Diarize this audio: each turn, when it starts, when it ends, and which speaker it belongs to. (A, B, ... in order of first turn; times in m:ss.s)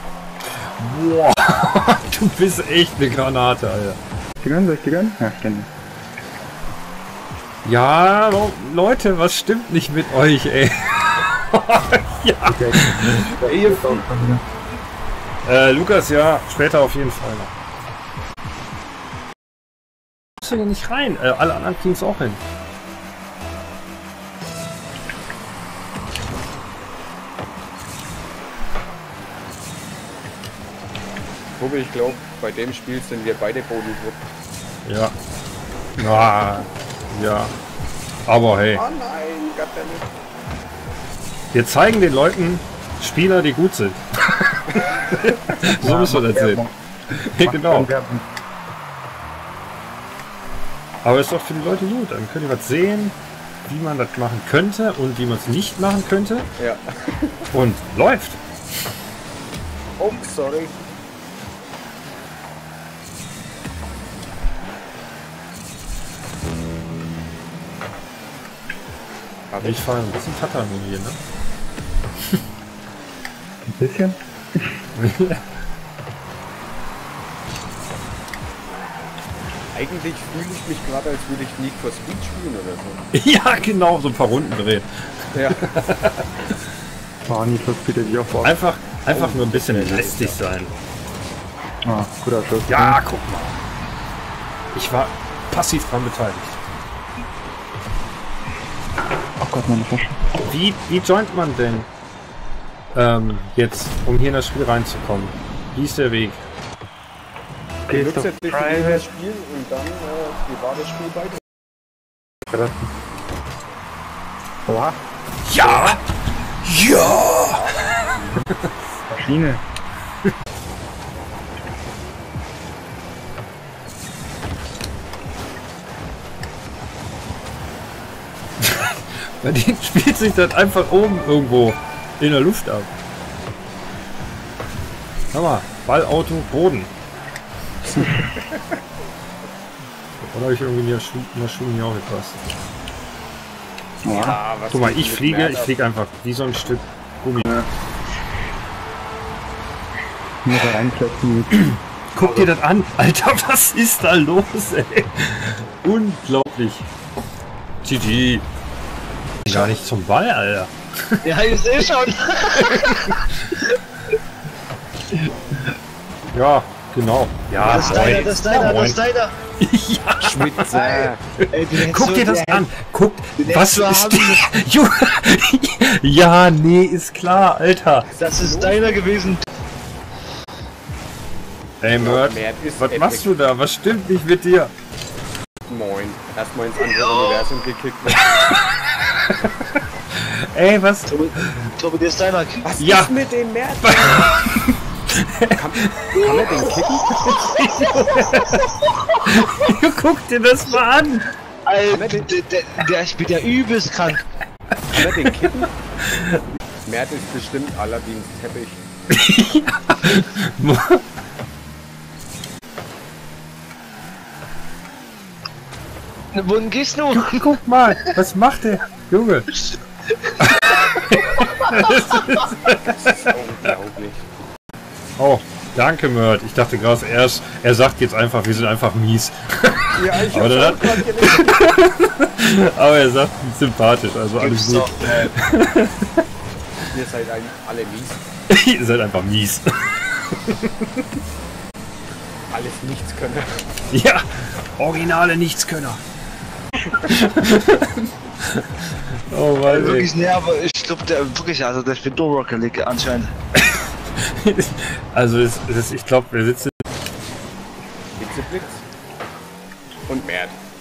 0:00.8-0:04.0 A
0:04.4-0:05.7 B
0:07.6-0:13.3 A
0:12.4-0:14.4 B
0:15.4-0:17.5 A
0:20.4-0:22.4 A
0:31.6-0:34.2 C
0:34.8-0:35.1 A
0:36.0-0:37.5 A
0:38.2-0:38.8 A
0:38.7-0:40.1 C
0:41.5-0:44.0 A
0:44.8-0:45.3 C
0:45.6-0:46.6 A
0:45.8-0:46.7 B
0:47.2-0:47.9 A
0:47.4-0:48.3 B
0:51.0-0:56.5 A
0:56.6-0:57.3 C
0:57.5-0:58.4 A
1:00.0-1:00.8 C
1:09.5-1:09.8 C
1:09.6-1:11.2 A
1:13.7-1:14.8 B
1:15.0-1:15.4 A
1:19.7-1:23.0 C
1:23.1-1:24.9 A
1:25.3-1:25.6 C
1:25.5-1:26.3 A
1:27.3-1:28.6 B
1:28.4-1:30.7 A
1:29.1-1:30.5 C
1:31.8-1:33.0 B
1:32.7-1:33.6 A
1:34.7-1:36.6 A
1:39.4-1:40.2 B
1:40.4-1:41.9 A
1:42.9-1:46.4 A
1:47.9-1:49.1 B
1:47.9-1:51.4 C
1:52.5-1:52.9 B
1:54.7-1:55.0 B
1:55.4-1:56.0 A
1:55.6-1:56.0 C
1:56.6-1:57.6 A
1:56.9-1:58.3 C
1:59.1-1:59.6 B
2:08.6-2:12.9 A
2:15.3-2:16.9 A
2:17.9-2:18.6 C
2:20.2-2:22.5 A
2:24.0-2:24.4 B
2:24.1-2:25.7 C
2:24.7-2:27.5 A
2:27.4-2:27.6 B
2:30.4-2:32.5 B
2:31.5-2:36.9 A
2:37.8-2:38.4 A
2:39.4-2:41.2 A
2:41.2-2:43.2 D
2:42.6-2:43.3 A
2:46.3-2:49.0 A
2:47.6-2:48.3 C
2:47.6-2:49.3 D
2:49.6-2:50.7 A
2:50.2-2:51.2 C
2:50.7-2:52.7 D
2:51.4-2:58.1 A
2:53.4-2:54.4 D
2:58.0-2:59.2 C
2:58.2-2:59.4 D
3:01.8-3:04.7 A
3:02.0-3:03.3 C
3:05.7-3:08.2 C
3:07.0-3:07.4 D
3:08.1-3:09.6 A
3:10.1-3:11.7 A
3:11.1-3:12.6 D
3:12.6-3:14.3 C
3:12.8-3:13.1 A
3:13.8-3:16.4 A
3:15.5-3:17.1 C
3:16.2-3:16.7 D
3:17.1-3:18.7 A
3:17.3-3:19.2 D
3:19.2-3:21.3 A
3:21.6-3:24.2 D
3:21.9-3:22.3 C
3:24.9-3:25.3 A
3:24.9-3:25.7 C
3:26.0-3:26.4 A
3:26.8-3:28.8 C
3:29.1-3:31.0 A
3:36.3-3:38.0 D
3:37.1-3:39.5 A
3:40.4-3:43.3 A
3:40.5-3:40.8 D
3:42.9-3:44.2 C
3:45.2-3:56.2 A
3:49.9-3:51.7 C
3:54.4-3:55.3 D
3:56.9-3:58.2 C
3:58.5-4:01.0 A
4:02.5-4:03.6 C
4:03.9-4:06.0 A
4:07.1-4:07.9 A
4:09.3-4:10.1 A
4:09.7-4:13.3 D
4:13.6-4:16.7 A
4:18.2-4:18.8 C
4:20.1-4:20.6 C